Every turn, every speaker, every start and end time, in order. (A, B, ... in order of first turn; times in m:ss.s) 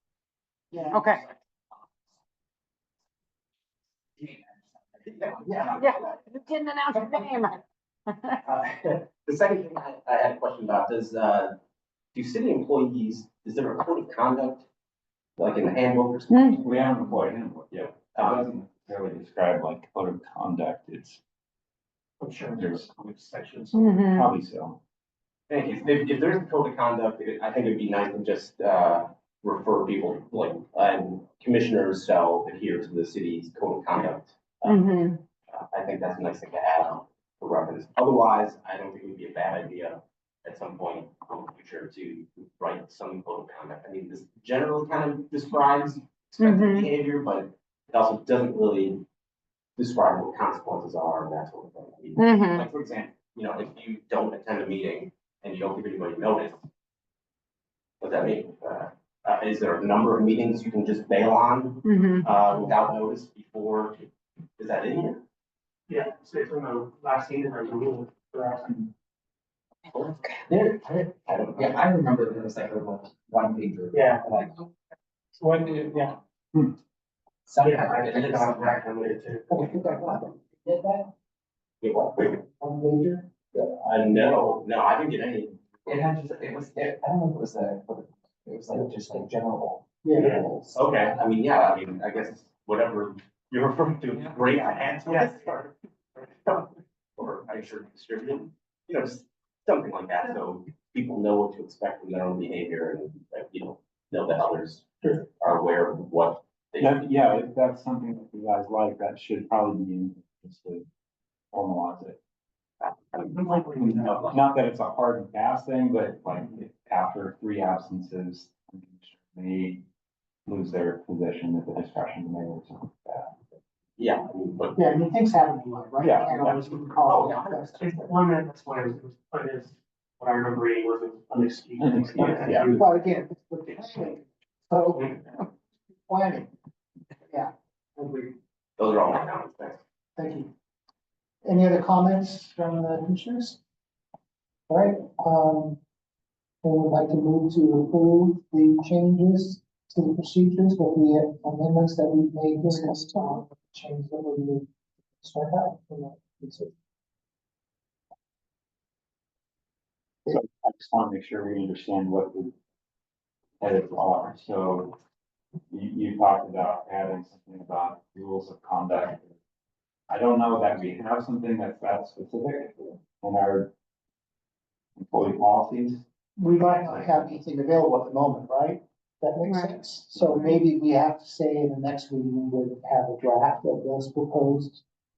0:00.7-0:01.1 A
0:00.9-0:01.2 B
0:05.0-0:05.9 C
0:05.4-0:05.8 A
0:05.8-0:08.4 B
0:08.4-0:11.6 C
0:12.1-0:14.7 C
0:15.4-0:16.6 C
0:16.3-0:16.6 B
0:16.6-0:21.2 D
0:18.1-0:18.4 C
0:22.2-0:23.9 E
0:22.5-0:23.0 D
0:23.7-0:24.3 B
0:23.9-0:24.8 D
0:25.5-0:35.0 C
0:34.6-0:35.2 B
0:35.5-0:49.0 C
0:46.4-0:46.9 B
0:49.8-0:56.6 C
0:52.2-0:52.7 B
0:58.0-1:04.0 C
1:01.8-1:02.3 B
1:04.6-1:05.2 C
1:05.9-1:08.9 E
1:09.9-1:14.7 F
1:11.3-1:11.7 C
1:13.9-1:14.3 E
1:15.4-1:16.2 E
1:17.5-1:18.7 F
1:17.6-1:19.6 E
1:17.9-1:19.7 C
1:19.5-1:21.1 A
1:21.8-1:22.4 C
1:22.3-1:23.6 A
1:23.6-1:26.0 C
1:25.9-1:29.9 F
1:30.0-1:30.5 A
1:30.1-1:47.0 C
1:46.8-1:50.8 D
1:51.5-1:52.2 D
1:52.8-1:54.4 C
1:53.3-1:54.2 E
1:53.8-1:59.8 D
2:00.5-2:03.4 D
2:04.0-2:04.8 C
2:04.8-2:08.0 A
2:06.0-2:06.6 D
2:06.4-2:07.6 C
2:07.8-2:12.8 E
2:11.8-2:12.8 D
2:12.6-2:15.5 A
2:16.1-2:16.5 A
2:17.3-2:18.4 A
2:18.8-2:19.8 C
2:20.2-2:20.5 A
2:21.4-2:23.6 A
2:24.7-2:25.8 A
2:26.6-2:34.7 A
2:35.2-2:36.7 A
2:40.3-2:42.5 D
2:43.6-2:45.0 D
2:45.7-2:49.4 D
2:50.1-2:53.7 D
2:55.0-2:56.0 D
2:56.4-3:04.8 A
2:59.4-2:59.8 B
3:00.1-3:00.5 D